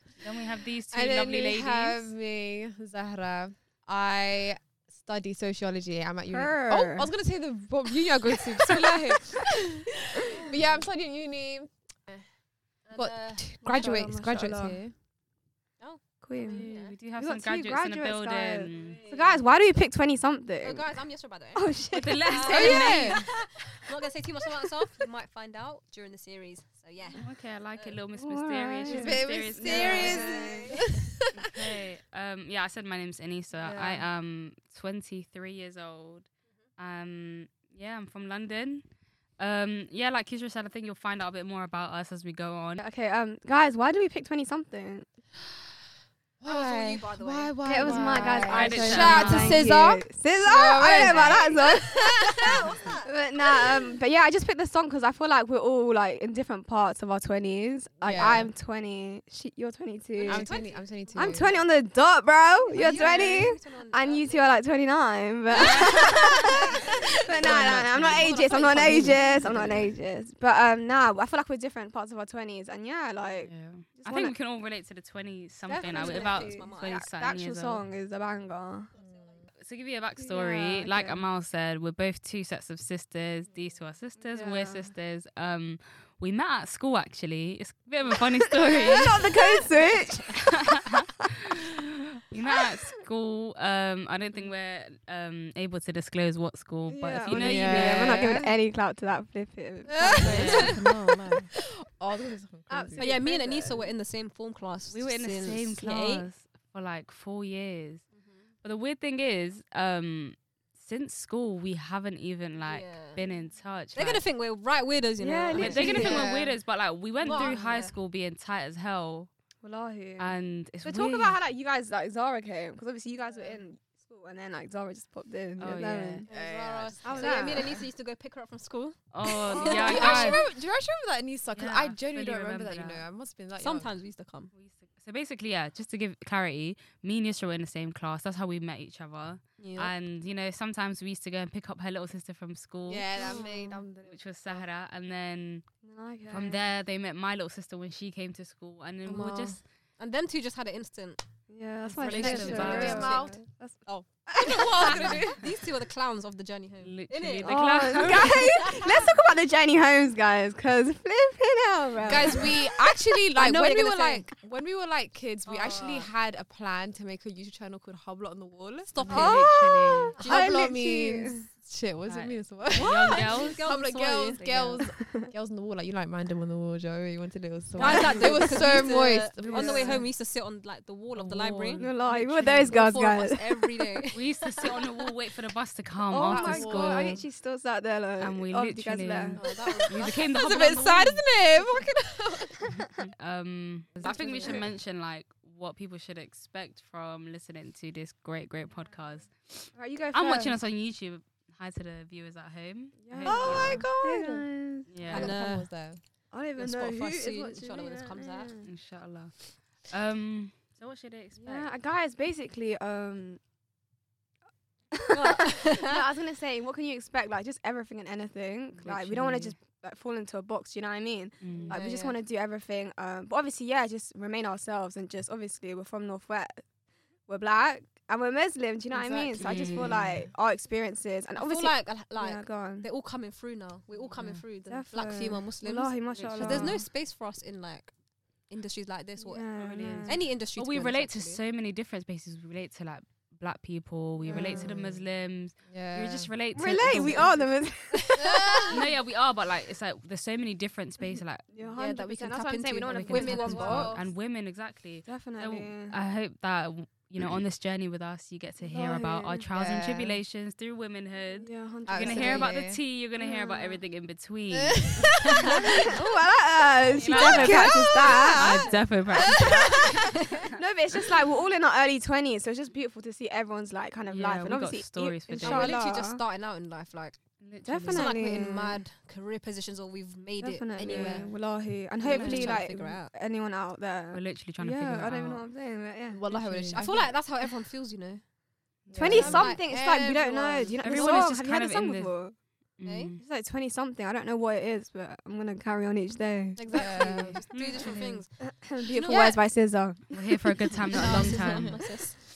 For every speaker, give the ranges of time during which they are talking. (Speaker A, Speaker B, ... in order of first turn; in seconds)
Speaker A: 0.2-2.1, 16.4-19.0, 21.9-23.3, 27.1-30.3, 31.4-42.8, 48.5-49.6, 65.6-65.9, 67.5-68.3, 68.8-69.7, 73.4-77.8, 79.5-89.7, 90.3-98.3, 100.2-100.7, 104.9-108.1, 108.6-114.2, 115.5-119.3, 120.2-121.3, 125.6-126.2, 129.1-130.4, 131.5-133.0, 134.5-143.1, 144.0-145.6, 146.3-149.6, 152.0-153.1, 156.8-158.7, 169.0-170.1, 172.1-173.7, 177.8-178.1, 179.5-180.0, 181.1-181.9, 184.1-187.2, 188.2-191.3, 193.0-203.8, 204.9-205.3, 208.6-211.7, 218.7-219.5, 221.4-221.8, 229.4-230.0, 234.1-234.4, 236.1-236.8, 239.6-247.5, 248.7-251.5, 252.8-265.1, 266.9-269.9, 274.1-275.8, 277.4-278.2, 280.8-281.3, 282.0-282.6, 284.1-285.4, 286.3-286.8, 288.9-289.4, 290.8-292.2, 292.8-293.2, 297.1-298.2, 300.1-301.8
Speaker B: 0.9-11.7, 12.9-14.9, 22.5-23.2, 28.9-31.0, 46.4-51.7, 58.0-58.5, 60.2-61.5, 62.9-63.2, 67.4-69.8, 79.0-79.4, 97.3-98.5, 99.9-100.7, 101.9-103.2, 115.5-116.6, 126.3-127.8, 129.7-133.9, 142.9-144.6, 152.0-155.4, 162.0-169.4, 170.2-180.0, 186.3-187.2, 190.3-192.6, 194.1-194.5, 203.2-204.5, 205.1-206.0, 228.9-230.3, 244.2-245.1, 245.7-246.3, 246.9-247.2, 259.5-260.2, 261.9-262.8, 264.5-265.2, 267.2-268.6, 269.2-269.9, 286.1-287.1, 288.9-291.2, 296.7-297.4, 299.1-299.4
Speaker C: 6.3-7.1, 8.7-9.2, 13.6-14.8, 16.2-21.0, 21.5-22.9, 28.1-30.8, 33.6-34.0, 42.8-45.1, 47.6-60.5, 61.1-74.3, 75.8-78.9, 80.2-81.2, 84.2-84.9, 88.5-90.5, 96.9-100.7, 102.7-103.9, 115.2-116.2, 117.4-117.8, 119.6-120.3, 120.8-126.3, 127.0-127.7, 129.5-130.0, 145.8-146.6, 151.5-155.3, 157.4-163.0, 169.1-171.5, 174.9-175.3, 177.8-178.8, 179.4-180.0, 181.8-184.0, 186.1-189.8, 192.8-193.1, 194.0-194.7, 199.7-200.6, 203.0-204.9, 206.3-208.7, 211.4-213.4, 215.7-226.6, 227.3-232.9, 234.7-236.8, 239.2-240.2, 244.3-244.7, 246.5-248.8, 251.5-254.0, 255.0-255.9, 258.6-259.4, 261.4-262.6, 263.2-263.8, 265.3-269.8, 270.5-276.2, 277.6-278.8, 280.4-286.2, 288.9-292.4, 293.2-297.4, 298.4-301.6
Speaker D: 10.5-10.8, 12.9-13.4, 15.8-16.9, 18.7-19.4, 20.6-21.7, 22.3-28.0, 29.6-30.8, 46.5-49.5, 50.8-53.0, 60.2-61.6, 62.6-64.6, 65.6-69.8, 75.7-77.0, 78.9-79.4, 100.0-101.5, 103.0-106.2, 108.1-108.4, 112.5-113.2, 113.9-116.2, 117.2-117.9, 126.2-130.4, 133.5-134.5, 139.6-139.9, 143.2-143.8, 149.0-151.2, 152.0-153.1, 154.5-159.1, 162.1-162.5, 163.3-164.2, 165.4-166.1, 168.9-169.4, 170.2-170.5, 172.7-174.8, 177.8-185.1, 189.3-190.3, 205.1-205.7, 206.6-208.5, 215.1-216.0, 221.5-222.2, 231.3-237.9, 238.5-241.4, 248.2-248.6, 251.8-254.1, 269.3-270.5, 275.4-277.2, 277.9-281.3, 282.0-283.1, 286.7-288.2, 289.1-289.6, 292.8-293.1, 296.6-298.3, 299.1-299.4, 300.9-302.2